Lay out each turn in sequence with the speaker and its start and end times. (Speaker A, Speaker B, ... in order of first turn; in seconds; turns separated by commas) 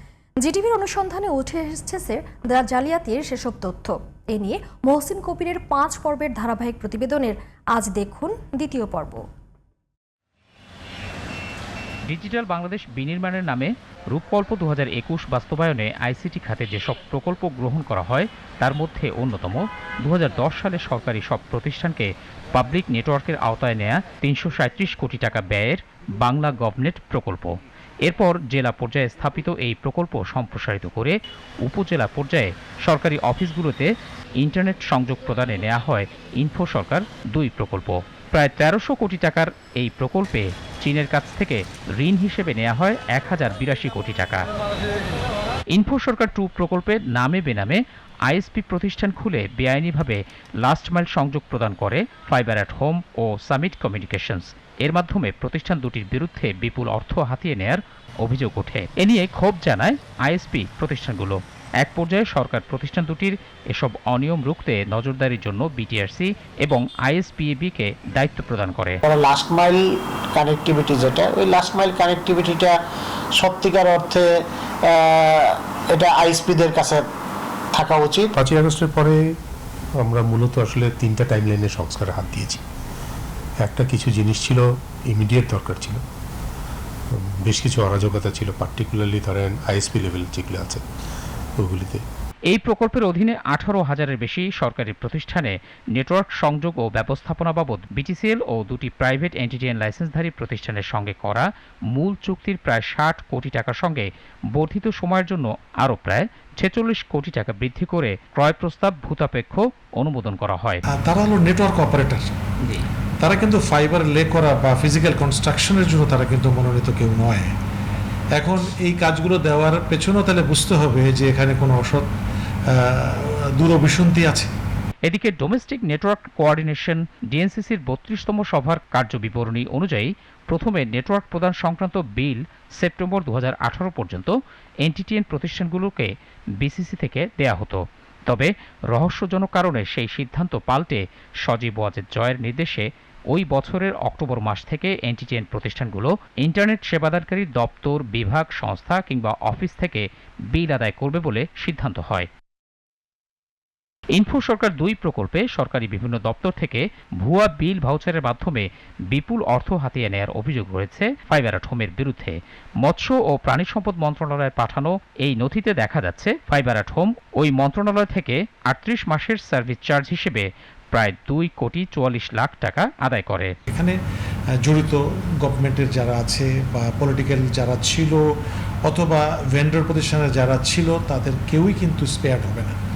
Speaker A: 0.4-9.2, Speaker B: 12.1-27.5, Speaker B: 28.0-44.5, Speaker B: 45.7-69.0, Speaker C: 69.1-69.8, Speaker C: 70.3-72.8, Speaker C: 73.4-74.3, Speaker C: 74.9-77.0, Speaker C: 77.7-78.3, Speaker D: 78.3-79.2, Speaker D: 80.0-82.6, Speaker D: 83.6-86.0, Speaker D: 87.2-90.8, Speaker D: 91.6-92.0, Speaker B: 92.5-110.8, Speaker E: 110.9-112.3, Speaker E: 113.2-117.5, Speaker E: 118.4-122.0, Speaker E: 122.7-124.5, Speaker B: 125.0-152.3, Speaker B: 154.2-173.5, Speaker E: 173.7-173.9, Speaker E: 174.7-178.2, Speaker E: 178.8-182.8